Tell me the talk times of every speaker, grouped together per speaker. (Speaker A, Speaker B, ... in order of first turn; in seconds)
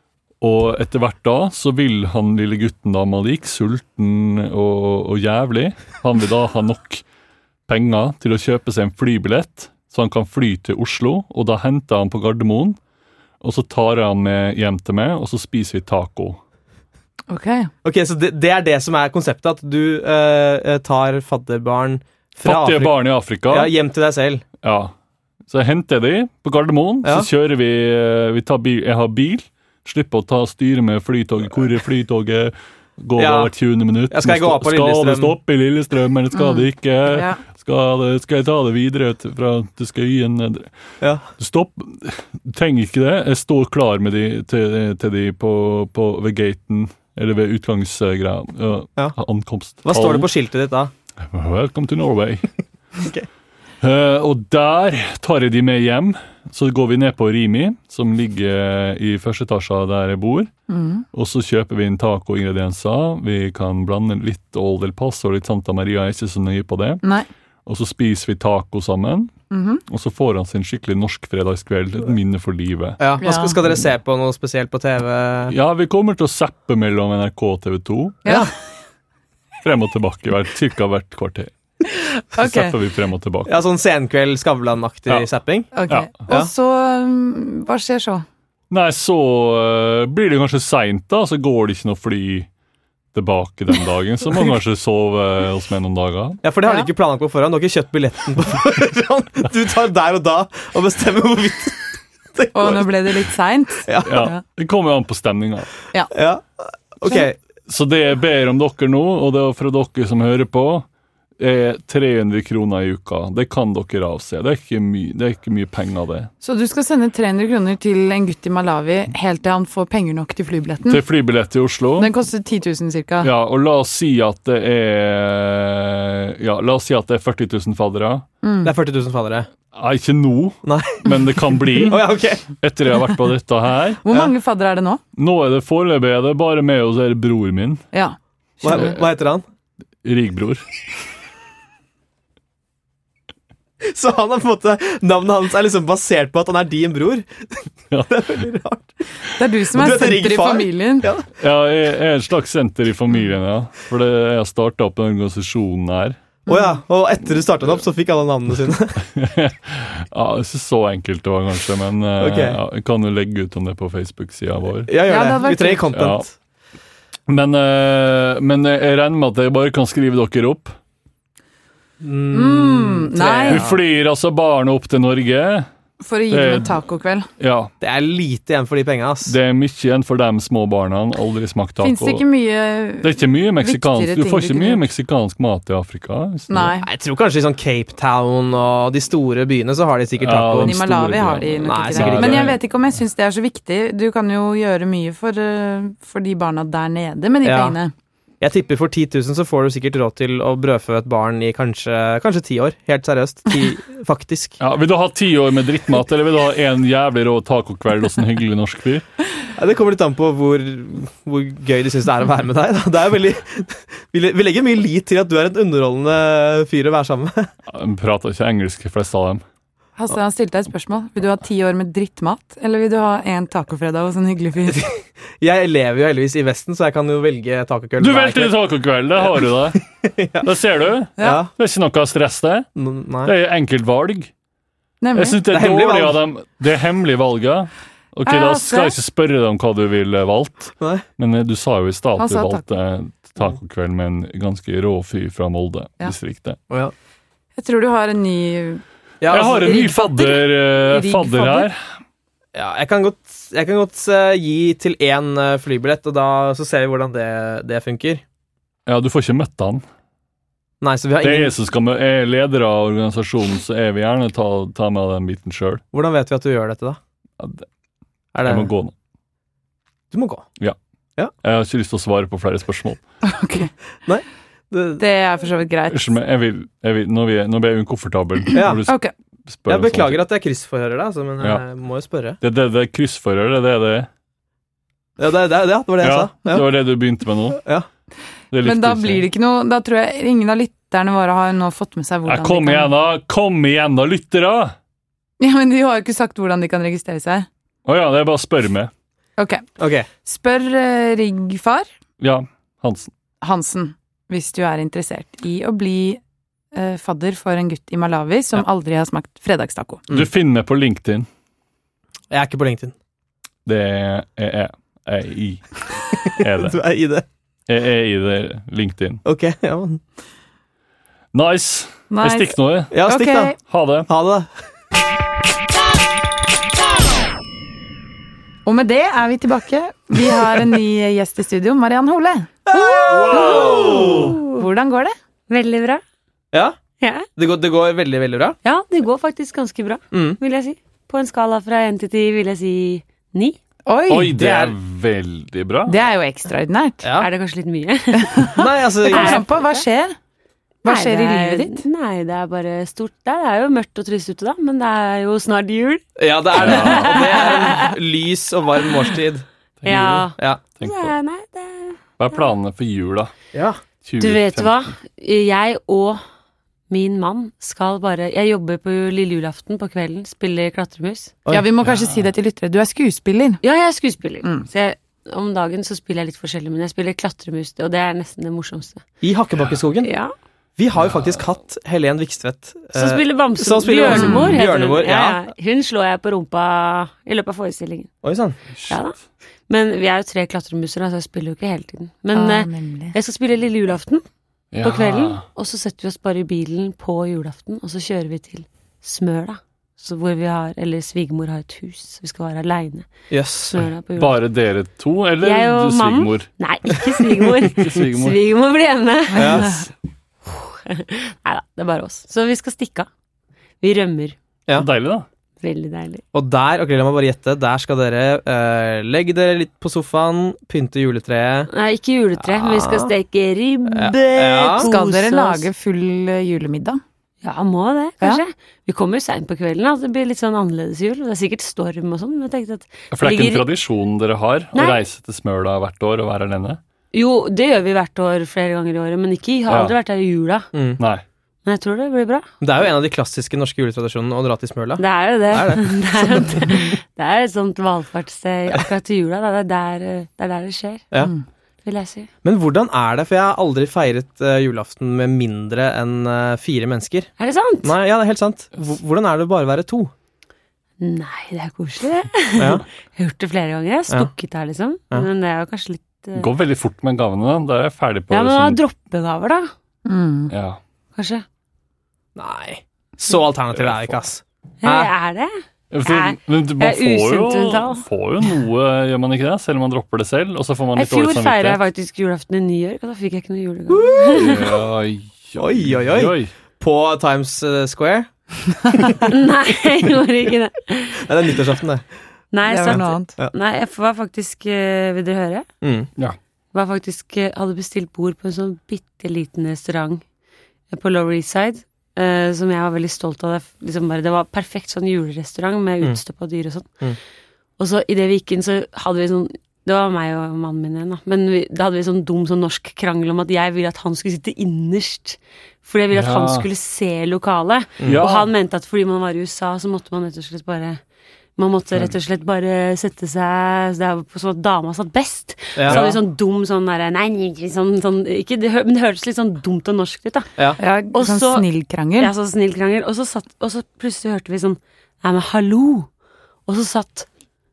Speaker A: 0.4-7.0, 7.7-12.8, 13.4-16.4, 22.4-23.7, 24.6-24.9, 25.5-40.7, 41.4-50.3, 51.2-52.5, 53.8-60.5, 61.1-67.0, 67.7-69.3, 69.9-73.0, 75.5-78.4, 79.6-81.5, 82.3-83.5, 88.7-92.5, 93.1-96.4, 104.0-105.7, 107.7-110.8, 111.4-116.3, 120.8-122.1, 123.2-128.2, 129.7-134.0, 135.1-137.8, 140.0-140.6, 147.9-148.2, 151.4-156.2, 159.1-164.9, 165.9-166.3, 167.3-170.8, 173.5-175.7, 176.3-176.8, 177.4-177.7, 179.2-182.2, 183.0-186.8, 190.2-192.6, 204.6-209.0, 217.7-219.4, 228.0-229.8, 230.4-232.7, 233.2-234.3, 235.1-246.6, 249.3-251.9, 258.9-259.8, 261.2-265.8, 267.4-267.7, 268.4-268.9, 271.4-273.0, 275.9-280.2, 282.4-284.1, 286.0-287.6, 288.5-289.3, 292.2-294.8, 297.8-298.9, 302.2-303.1, 310.1-311.3, 313.6-316.8, 317.7-319.2, 321.3-322.9, 323.6-324.1, 333.1-334.3, 344.1-346.0, 356.5-357.3, 359.8-361.1, 362.2-363.3, 364.0-364.9, 371.8-372.2, 380.9-381.4, 388.7-389.0, 394.7-395.4, 404.1-406.5, 407.6-408.4, 414.7-415.3, 433.1-436.8, 439.7-439.9, 441.0-441.2, 466.3-468.8, 470.5-470.8, 473.7-474.1, 475.9-481.8, 484.3-486.5, 516.1-516.6, 518.1-518.5, 525.9-526.2
Speaker B: 17.3-17.7, 36.3-37.4, 60.7-61.0, 69.5-69.8, 73.2-73.6, 82.3-82.8, 85.7-88.2, 102.5-104.4, 116.4-121.0, 122.0-123.3, 128.4-128.7, 134.0-135.0, 149.4-151.1, 165.0-165.8, 172.3-173.7, 176.0-177.3, 181.8-184.8, 186.5-186.9, 190.6-197.9, 220.0-224.8, 235.0-235.4, 238.3-238.9, 242.2-242.6, 247.6-251.7, 273.2-273.7, 275.0-276.1, 278.9-279.1, 288.6-292.9, 295.4-297.5, 299.4-299.7, 300.2-301.9, 303.4-306.2, 306.7-310.0, 322.1-323.6, 328.6-335.1, 343.9-344.4, 345.9-347.0, 348.2-350.2, 350.8-351.8, 371.5-373.6, 384.1-384.5, 392.3-393.1, 409.3-409.9, 424.8-427.0, 470.1-470.5, 492.6-493.3, 530.8-532.3
Speaker C: 17.8-24.4, 33.1-33.5, 34.1-35.3, 41.0-41.3, 49.8-50.9, 53.0-53.3, 73.0-75.5, 83.5-85.7, 96.4-103.2, 103.8-104.3, 106.1-107.4, 128.6-129.5, 130.6-131.1, 131.8-132.5, 138.6-139.4, 143.8-148.9, 149.7-151.3, 156.5-159.0, 162.2-162.6, 164.9-166.3, 172.0-173.8, 177.8-179.3, 186.8-190.8, 191.6-192.5, 197.4-197.8, 198.4-204.6, 209.6-217.5, 224.7-228.6, 229.9-230.5, 231.2-231.5, 232.8-233.3, 235.5-236.2, 240.8-241.0, 249.2-249.8, 252.5-258.2, 260.8-261.5, 265.9-267.0, 268.3-268.7, 270.1-270.4, 274.1-275.0, 278.5-278.8, 279.7-282.4, 285.2-286.7, 287.6-287.9, 299.8-300.1, 312.3-312.9, 316.2-317.2, 319.2-320.0, 322.9-323.5, 324.1-324.5, 332.7-334.4, 336.5-336.8, 337.4-338.6, 340.1-340.4, 344.4-344.7, 347.0-347.3, 348.6-349.4, 356.2-359.4, 363.5-363.8, 379.2-380.1, 380.8-385.4, 388.2-388.6, 403.3-403.8, 409.3-409.7, 416.3-421.7, 422.4-423.1, 423.9-424.9, 440.7-441.0, 442.6-446.9, 452.4-457.3, 457.8-460.1, 462.6-462.8, 472.4-475.1, 483.9-484.6, 485.6-488.3, 488.9-489.2, 491.2-492.0, 492.9-493.5, 495.8-496.1, 525.8-526.0
Speaker D: 333.5-334.6, 335.5-336.0, 337.0-337.3, 338.6-343.6, 347.2-349.8, 350.8-357.9, 359.8-362.4, 364.2-366.2, 366.9-371.4, 373.6-379.0, 380.0-380.3, 382.9-388.1, 388.9-389.1, 389.7-394.2, 394.8-403.1, 403.7-404.4, 405.4-409.8, 410.4-413.1, 413.8-414.4, 415.6-416.2, 421.7-425.7, 427.4-433.7, 434.7-435.0, 437.1-440.7, 441.6-442.5, 445.0-451.1, 451.8-452.3, 457.4-457.9, 461.0-466.5, 468.3-469.7, 471.1-471.4, 474.8-478.0, 480.9-484.7, 489.3-491.3, 492.5-495.7, 496.7-500.2, 500.9-507.0, 507.8-521.0, 521.6-530.5, 531.1-536.1, 536.7-537.3